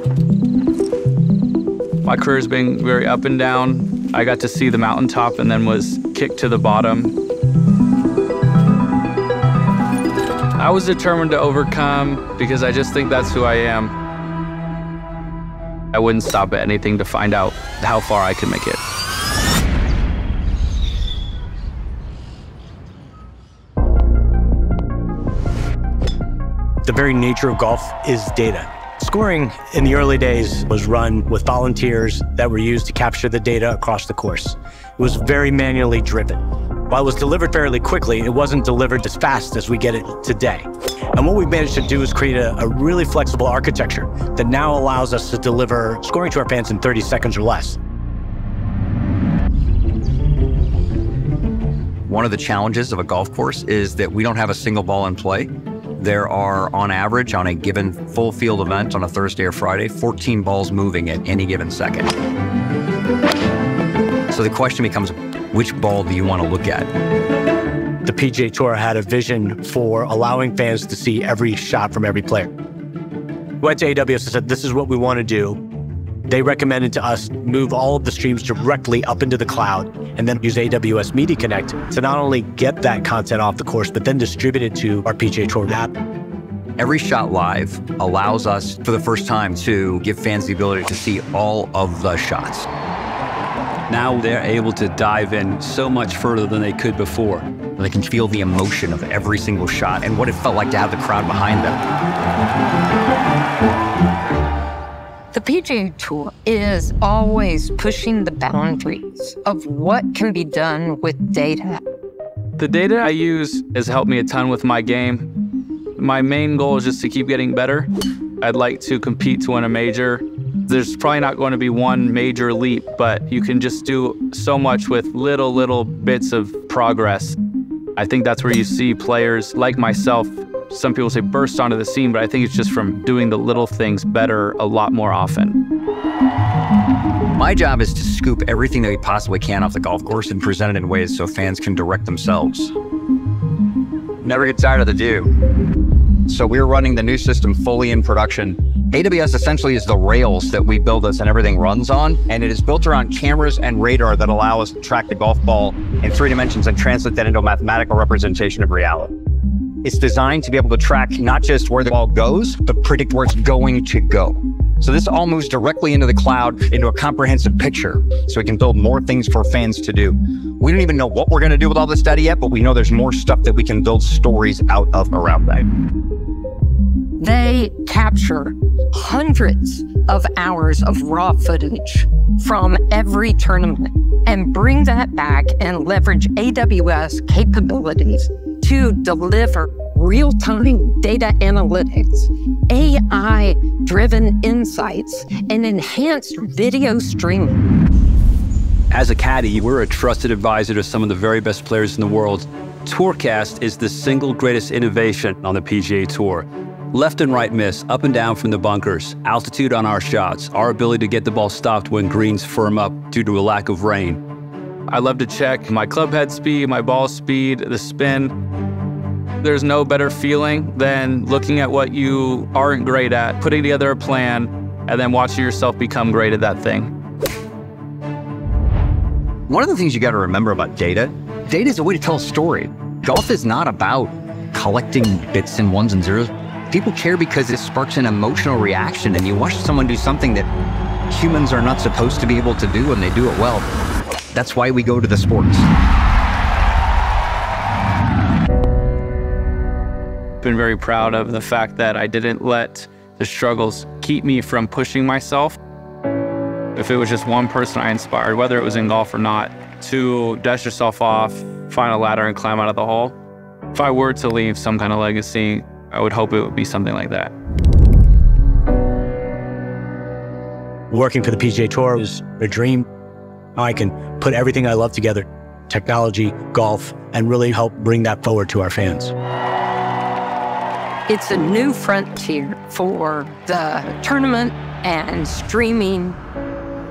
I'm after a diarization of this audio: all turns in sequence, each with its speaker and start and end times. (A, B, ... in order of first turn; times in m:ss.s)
0:02.0-0:07.1 A
0:10.6-0:13.9 A
0:15.9-0:18.8 A
0:26.8-0:47.8 B
0:52.1-1:02.1 C
1:04.3-1:06.9 C
1:08.0-1:12.5 B
1:13.6-1:15.6 B
1:16.3-1:25.9 B
1:26.8-1:32.7 C
1:33.9-1:37.4 D
1:37.8-1:41.8 C
1:45.3-1:51.8 E
1:52.6-1:55.3 A
1:56.0-1:57.9 A
1:58.4-2:07.4 A
2:08.0-2:15.6 A
2:17.3-2:22.7 C
2:24.2-2:25.3 C
2:26.3-2:39.1 C
2:39.8-2:55.7 C
2:57.2-3:17.6 E
3:18.9-3:34.2 D
3:34.9-3:38.3 A
3:39.4-3:46.9 A
3:49.5-4:00.5 C
4:01.1-4:03.7 C
4:04.3-4:05.7 C
4:10.4-4:15.6 A
4:16.7-4:23.1 A
4:23.7-4:27.3 A
4:30.9-4:32.8 B
4:33.6-4:39.1 B
4:41.1-4:46.2 E